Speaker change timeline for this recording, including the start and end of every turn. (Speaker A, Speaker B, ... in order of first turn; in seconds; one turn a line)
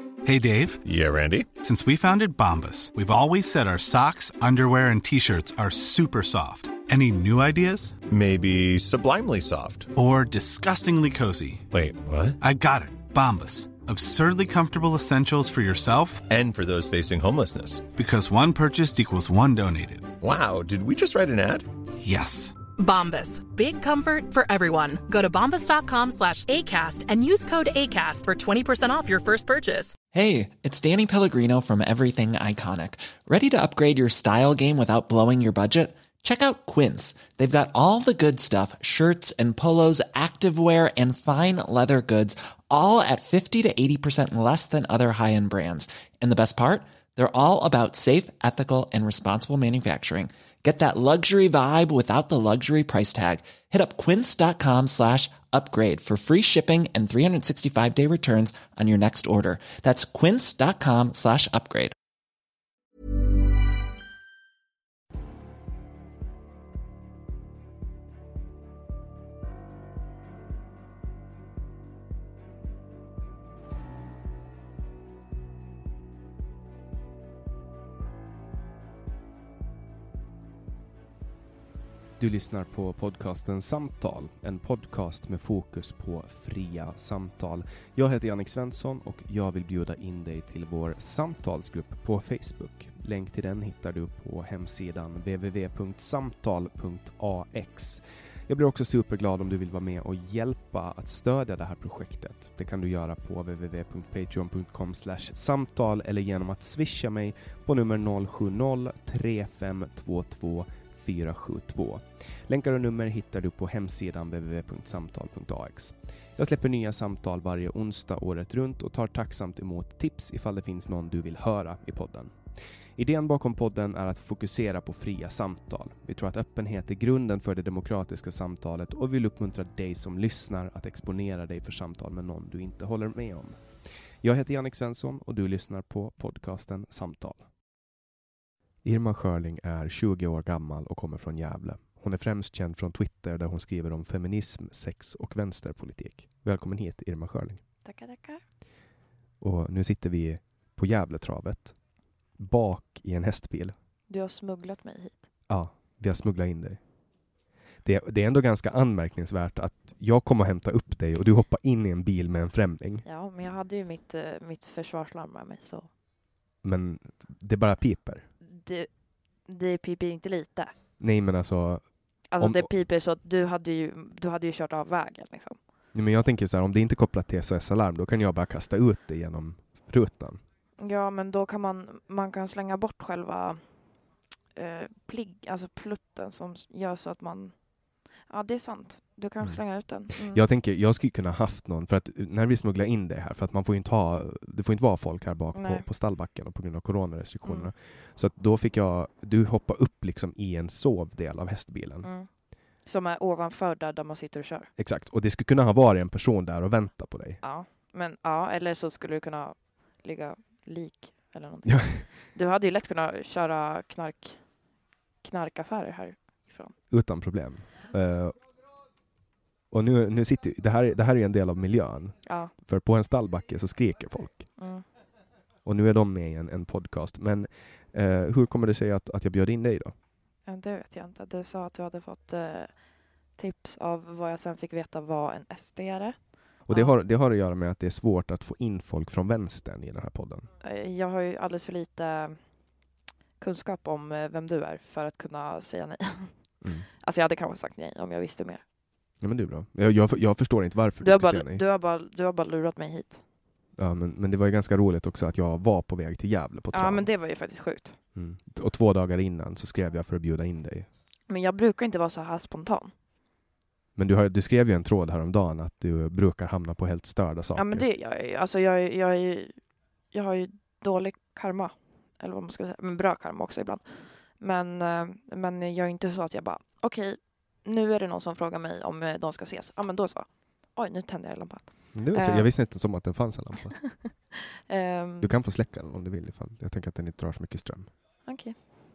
Speaker A: 0.2-0.8
Speaker B: 0.8-1.5
Speaker A: 1.6-8.0
Speaker B: 8.1-9.9
Speaker A: 9.9-11.7
Speaker B: 11.7-12.4
Speaker A: 12.4-16.2
Speaker B: 16.3-17.9
Speaker A: 17.9-20.1
Speaker B: 20.2-21.7
Speaker A: 22.0-22.6
Speaker C: 22.8-29.9
Speaker D: 30.1-61.9
Speaker E: 82.2-122.3
Speaker E: 123.0-133.6
Speaker E: 134.2-137.4
Speaker E: 138.8-147.6
Speaker F: 147.8-148.4
Speaker E: 149.4-151.8
Speaker E: 152.4-153.8
Speaker F: 154.1-155.2
Speaker E: 155.5-156.8
Speaker E: 157.8-163.1
Speaker F: 163.1-165.9
Speaker E: 166.6-168.3
Speaker F: 168.4-168.9
Speaker F: 169.5-170.7
Speaker E: 171.0-172.7
Speaker F: 172.3-175.6
Speaker E: 175.9-180.4
Speaker F: 180.8-183.6
Speaker F: 184.6-187.6
Speaker F: 188.2-190.4
Speaker E: 189.4-202.1
Speaker F: 195.6-195.8
Speaker F: 202.0-202.3
Speaker F: 202.8-204.7
Speaker E: 204.8-207.4
Speaker F: 207.4-214.4
Speaker E: 211.7-212.0
Speaker F: 215.2-216.7
Speaker E: 216.9-218.4
Speaker E: 219.7-224.5
Speaker F: 222.3-222.5
Speaker F: 224.6-224.8
Speaker E: 225.6-229.9
Speaker F: 230.4-236.9
Speaker E: 236.7-240.5
Speaker F: 240.6-242.4
Speaker F: 243.4-248.6
Speaker E: 246.6-246.9
Speaker E: 249.2-251.6
Speaker F: 251.0-253.2
Speaker E: 253.8-257.1
Speaker F: 256.7-258.0
Speaker E: 258.1-260.9
Speaker F: 261.3-262.9
Speaker E: 264.0-267.9
Speaker F: 267.6-269.6
Speaker F: 270.1-282.5
Speaker E: 281.9-283.9
Speaker F: 284.7-285.3
Speaker E: 285.2-287.9
Speaker F: 288.2-288.6